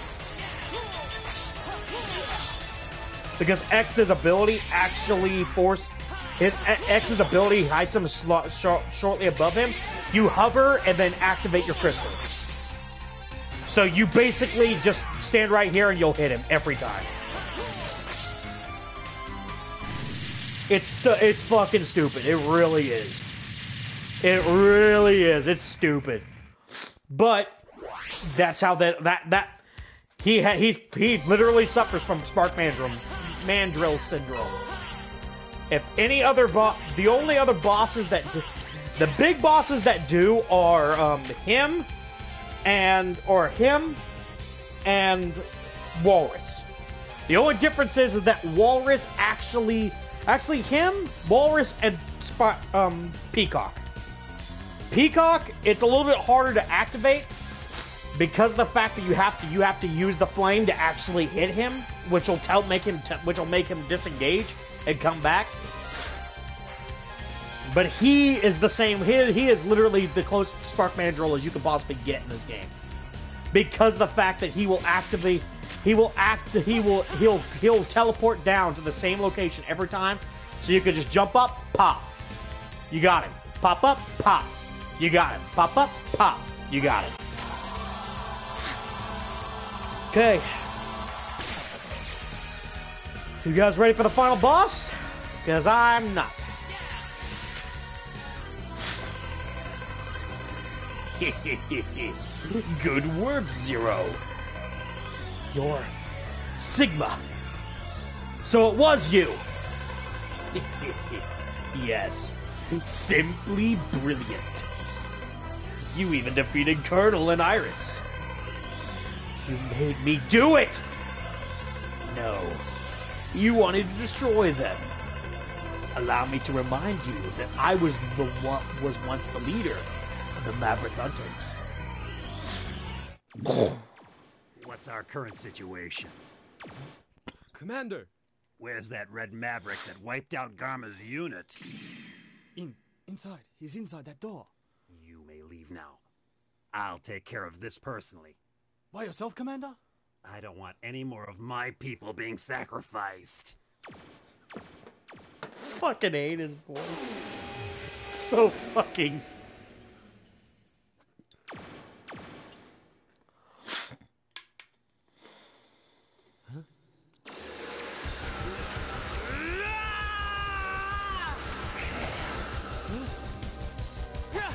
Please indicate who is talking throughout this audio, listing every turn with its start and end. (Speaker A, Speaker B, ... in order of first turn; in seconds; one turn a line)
Speaker A: 3.4-12.2
Speaker A: 13.7-17.1
Speaker A: 20.7-23.2
Speaker A: 24.2-26.3
Speaker A: 27.1-27.6
Speaker A: 28.2-29.6
Speaker A: 30.2-34.6
Speaker A: 35.7-41.9
Speaker A: 42.6-44.0
Speaker A: 44.8-46.7
Speaker A: 47.3-53.8
Speaker A: 54.9-57.3
Speaker A: 58.1-65.5
Speaker A: 67.6-72.7
Speaker A: 73.5-82.1
Speaker A: 82.9-87.2
Speaker A: 90.1-90.5
Speaker A: 93.4-96.5
Speaker A: 101.2-104.2
Speaker A: 105.5-105.9
Speaker A: 106.6-107.3
Speaker A: 108.4-109.4
Speaker A: 110.5-114.7
Speaker A: 115.9-118.0
Speaker A: 119.4-120.8
Speaker A: 122.0-122.6
Speaker A: 123.3-124.9
Speaker A: 125.9-131.6
Speaker B: 134.5-136.2
Speaker C: 137.5-138.1
Speaker B: 138.6-141.6
Speaker C: 142.6-144.5
Speaker B: 144.9-146.0
Speaker B: 146.7-148.4
Speaker C: 148.9-149.8
Speaker B: 150.2-153.6
Speaker A: 155.6-157.2
Speaker A: 158.1-159.2